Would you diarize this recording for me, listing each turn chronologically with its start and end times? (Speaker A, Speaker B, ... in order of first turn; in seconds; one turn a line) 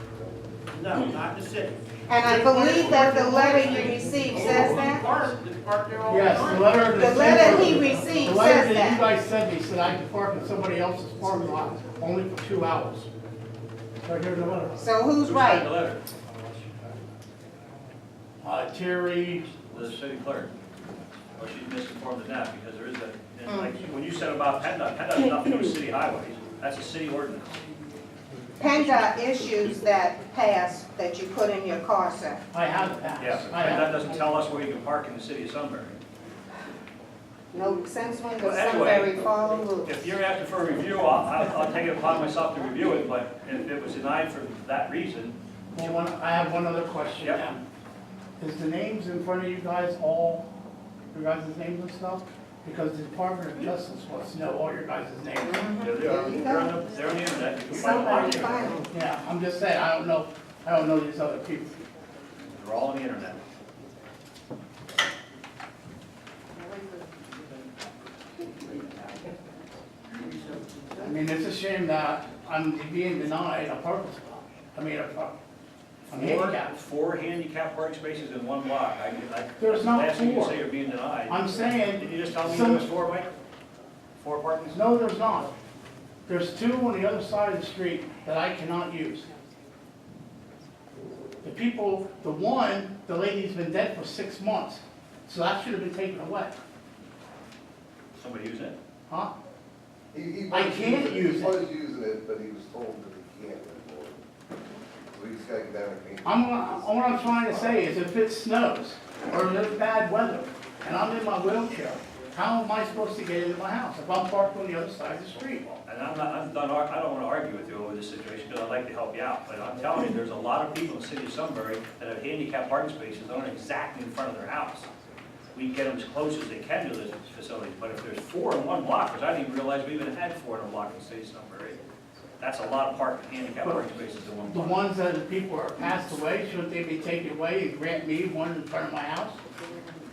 Speaker A: 0.7-8.1
Speaker B: 2.1-5.0
Speaker C: 6.1-13.1
Speaker B: 6.9-9.1
Speaker C: 14.0-14.8
Speaker B: 14.8-15.7
Speaker D: 15.2-16.0
Speaker C: 18.4-19.5
Speaker D: 19.7-20.5
Speaker D: 21.4-27.6
Speaker B: 23.4-23.7
Speaker B: 28.6-32.4
Speaker C: 32.5-34.3
Speaker D: 33.2-36.0
Speaker B: 37.5-40.0
Speaker D: 38.4-39.2
Speaker D: 39.8-46.0
Speaker C: 45.7-47.6
Speaker C: 48.4-50.4
Speaker C: 51.1-55.7
Speaker B: 55.4-56.8
Speaker D: 55.8-58.9
Speaker C: 57.6-61.8
Speaker B: 57.7-58.8
Speaker D: 62.5-63.4
Speaker B: 66.6-66.9
Speaker A: 70.1-71.2
Speaker C: 71.0-75.3
Speaker C: 76.1-76.7
Speaker D: 76.1-83.3
Speaker C: 79.6-80.6
Speaker C: 81.3-82.9
Speaker D: 84.2-84.8
Speaker C: 84.7-85.5
Speaker C: 86.3-89.3
Speaker C: 91.4-96.5
Speaker D: 98.1-98.8
Speaker E: 100.1-104.2
Speaker C: 100.5-101.7
Speaker E: 105.1-106.6
Speaker C: 106.2-115.7
Speaker D: 115.7-124.9
Speaker D: 125.5-131.8
Speaker D: 132.4-134.9
Speaker C: 134.5-139.4